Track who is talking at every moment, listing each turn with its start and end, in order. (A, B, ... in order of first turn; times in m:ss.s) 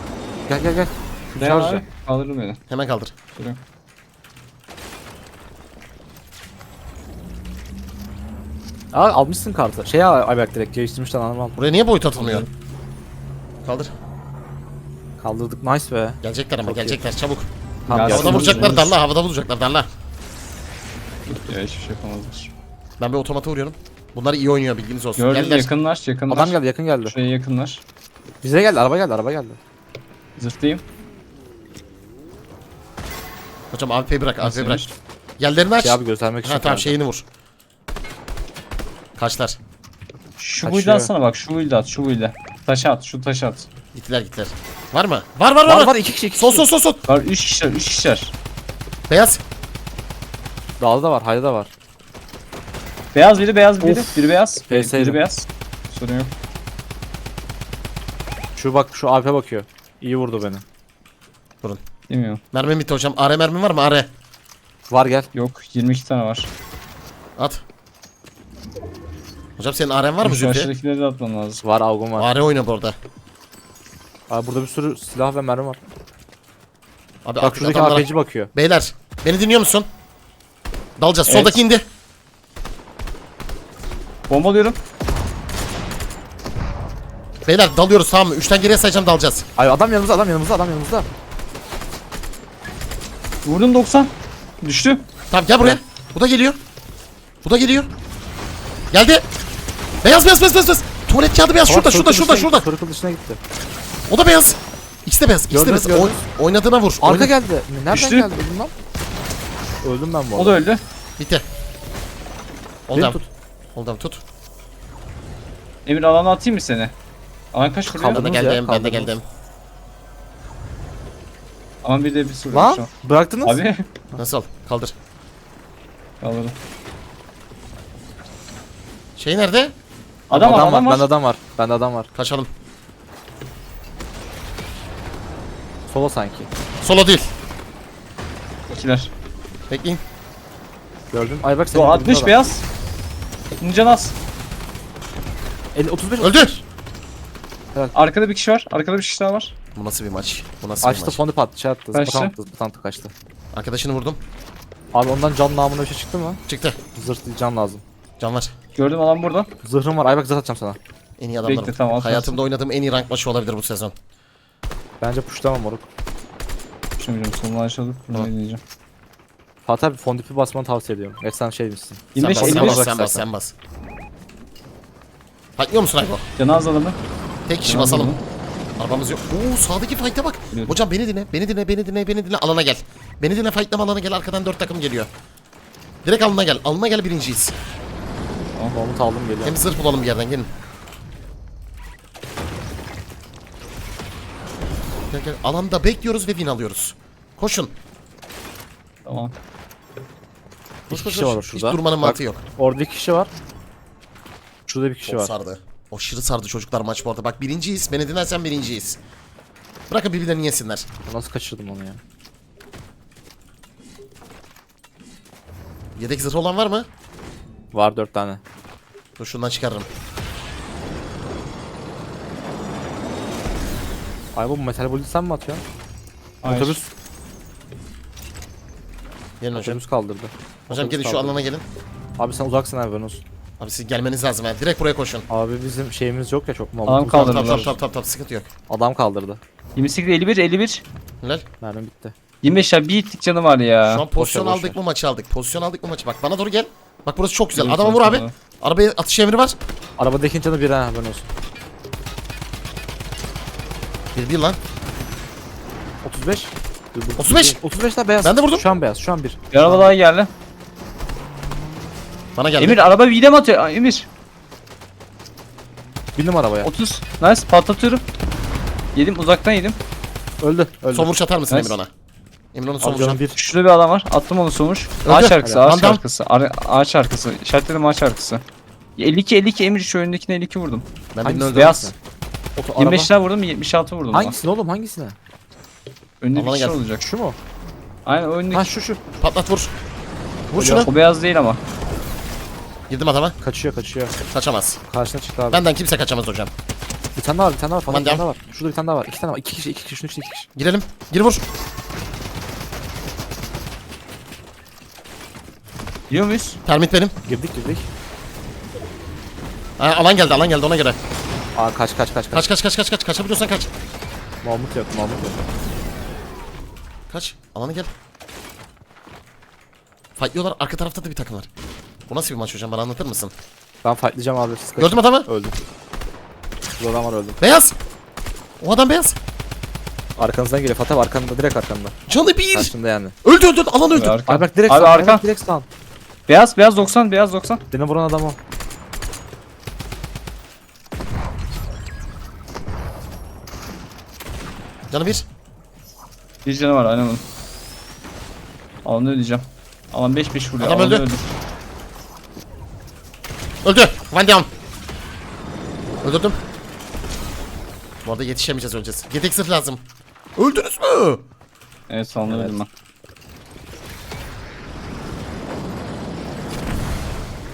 0:00.5-0:01.8 A
0:01.4-0:02.6 B
0:02.7-0:03.1 C
0:08.9-0:11.6 A
0:11.6-0:12.5 C
0:12.2-0:12.5 B
0:13.6-0:13.9 C
0:15.2-0:17.0 A
0:16.2-0:17.5 C
0:17.9-0:18.8 A
0:17.9-0:18.9 B
0:18.0-0:19.9 C
0:21.2-0:22.5 B
0:23.0-0:25.7 C
0:25.2-0:27.8 B
0:26.3-0:27.1 A
0:28.4-0:29.6 A
0:30.4-0:30.8 B
0:33.7-0:34.8 C
0:34.4-0:34.9 B
0:35.4-0:37.2 C
0:35.8-0:37.0 A
0:39.2-0:39.6 C
0:40.4-0:43.7 B
0:40.6-0:41.1 A
0:43.9-0:47.0 C
0:45.6-0:46.7 A
0:47.1-0:48.3 B
0:49.1-0:49.4 C
0:50.8-0:51.7 A
0:53.1-0:56.3 B
0:53.8-0:54.1 A
0:54.7-0:55.2 A
0:58.6-1:00.6 A
1:02.1-1:02.4 B
1:02.5-1:04.1 C
1:04.9-1:05.3 A
1:05.3-1:06.5 B
1:07.4-1:07.6 C
1:09.6-1:10.7 C
1:10.2-1:11.6 B
1:11.6-1:12.3 A
1:12.2-1:13.0 C
1:14.3-1:15.8 A
1:17.2-1:19.9 C
1:17.4-1:18.5 A
1:21.0-1:21.8 C
1:21.3-1:21.6 B
1:24.3-1:24.8 B
1:27.4-1:29.4 C
1:29.6-1:31.1 A
1:33.4-1:35.0 B
1:35.3-1:36.6 C
1:37.4-1:37.9 C
1:38.9-1:39.2 C
1:40.0-1:42.6 C
1:41.6-1:43.4 A
1:44.1-1:47.3 C
1:45.5-1:46.2 A
1:47.0-1:48.7 A
1:47.9-1:48.3 B
1:49.8-1:50.6 A
1:50.4-1:50.8 B
1:51.2-1:51.4 C
1:52.9-1:53.2 C
1:52.9-1:53.3 A
1:53.7-1:54.2 C
1:55.8-1:56.9 B
1:57.5-1:58.3 B
1:57.9-1:59.1 A
1:57.9-1:59.2 C
2:01.8-2:02.9 B
2:02.5-2:03.6 A
2:03.4-2:03.8 B
2:04.2-2:04.9 C
2:06.2-2:06.5 B
2:09.2-2:09.7 C
2:10.3-2:10.7 C
2:10.3-2:11.1 B
2:10.3-2:12.1 A
2:12.1-2:12.5 C
2:15.9-2:16.5 A
2:16.8-2:17.3 C
2:18.7-2:19.1 B
2:19.7-2:20.0 C
2:21.1-2:22.3 A
2:21.7-2:22.6 B
2:23.6-2:24.1 B
2:25.7-2:26.6 A
2:26.2-2:26.6 C
2:27.9-2:29.5 B
2:29.7-2:31.2 C
2:30.8-2:33.1 A
2:31.9-2:32.3 B
2:33.5-2:34.2 C
2:34.9-2:36.4 A
2:36.5-2:36.8 C
2:36.9-2:37.8 A
2:38.2-2:38.5 C
2:38.7-2:39.5 B
2:39.6-2:40.8 A
2:41.2-2:43.9 C
2:41.4-2:42.4 B
2:45.0-2:45.8 A
2:47.0-2:48.6 B
2:49.6-2:53.2 A
2:52.1-2:52.8 B
2:52.2-2:53.5 C
2:55.6-2:56.2 C
2:56.4-2:57.0 B
2:57.5-2:58.2 C
2:57.7-2:58.2 B
2:58.8-3:05.1 C
3:06.0-3:07.5 C
3:08.7-3:09.6 A
3:09.4-3:10.5 C
3:15.1-3:17.7 C
3:19.0-3:19.3 B
3:20.9-3:22.4 C
3:20.9-3:23.3 A
3:24.7-3:25.3 A
3:25.1-3:29.0 C
3:29.9-3:30.9 C
3:31.0-3:32.0 A
3:36.0-3:36.9 C
3:37.7-3:38.4 A
3:39.2-3:39.9 C
3:44.3-3:45.6 A
3:46.4-3:46.8 B
3:46.4-3:46.9 A
3:49.4-3:49.8 C
3:49.5-3:51.4 A
3:50.7-3:51.6 C
3:52.2-3:53.2 A
3:53.6-3:55.3 C
3:55.3-3:57.7 A
3:56.8-3:57.7 B
3:57.1-3:58.5 C
3:58.7-3:59.4 A
3:59.8-4:00.8 B
4:01.6-4:02.1 A
4:02.4-4:04.0 B
4:03.9-4:09.6 C
4:04.1-4:04.8 A
4:07.5-4:08.3 B
4:10.0-4:11.3 A
4:14.1-4:14.6 C
4:16.0-4:19.9 A
4:17.2-4:17.6 C
4:18.2-4:18.6 C
4:19.5-4:20.3 B
4:22.4-4:22.8 C
4:22.6-4:24.0 B
4:26.2-4:26.7 A
4:26.6-4:28.0 B
4:28.9-4:29.8 B
4:30.4-4:31.1 A
4:30.9-4:31.9 C
4:31.5-4:31.8 B
4:32.5-4:33.2 C
4:32.8-4:33.4 A
4:33.2-4:38.4 B
4:35.0-4:36.0 C
4:39.0-4:40.8 B
4:41.1-4:41.8 C
4:41.2-4:41.9 A
4:41.5-4:41.9 B
4:42.6-4:43.1 A
4:42.8-4:44.4 B
4:44.1-4:45.2 A
4:46.2-4:47.0 B
4:46.3-4:46.8 C
4:47.0-4:47.4 A
4:48.0-4:48.7 B
4:48.5-4:49.0 A
4:49.2-4:49.7 C
4:50.5-4:50.9 C
4:50.6-4:50.9 A
4:50.8-4:51.6 B
4:52.9-4:53.4 C
4:53.4-4:54.1 A
4:54.3-4:54.8 C
4:54.9-4:55.6 A
4:55.5-4:56.5 C
4:57.2-5:00.5 A
4:57.9-4:58.2 C
5:00.6-5:01.4 C
5:06.1-5:06.6 B
5:06.6-5:07.1 C
5:07.2-5:07.9 A
5:09.8-5:11.0 C
5:11.6-5:12.5 A
5:12.3-5:13.7 C
5:14.4-5:15.4 A
5:17.1-5:17.9 C
5:20.2-5:21.5 C
5:22.1-5:23.3 C
5:23.8-5:25.6 A
5:24.8-5:25.3 C
5:26.8-5:27.4 A
5:27.4-5:27.7 C
5:28.6-5:29.2 C
5:30.2-5:32.0 A
5:32.1-5:34.2 C
5:32.5-5:33.1 A
5:33.9-5:35.2 B
5:34.3-5:35.7 A
5:36.3-5:37.6 B
5:37.7-5:38.4 A
5:44.9-5:45.2 C
5:46.4-5:47.2 B
5:48.8-5:51.3 B
5:50.6-5:51.1 C
5:53.6-5:54.5 C
5:56.0-5:56.4 C
5:58.0-5:59.8 C
6:00.4-6:01.2 C
6:01.9-6:02.7 B
6:02.3-6:02.5 A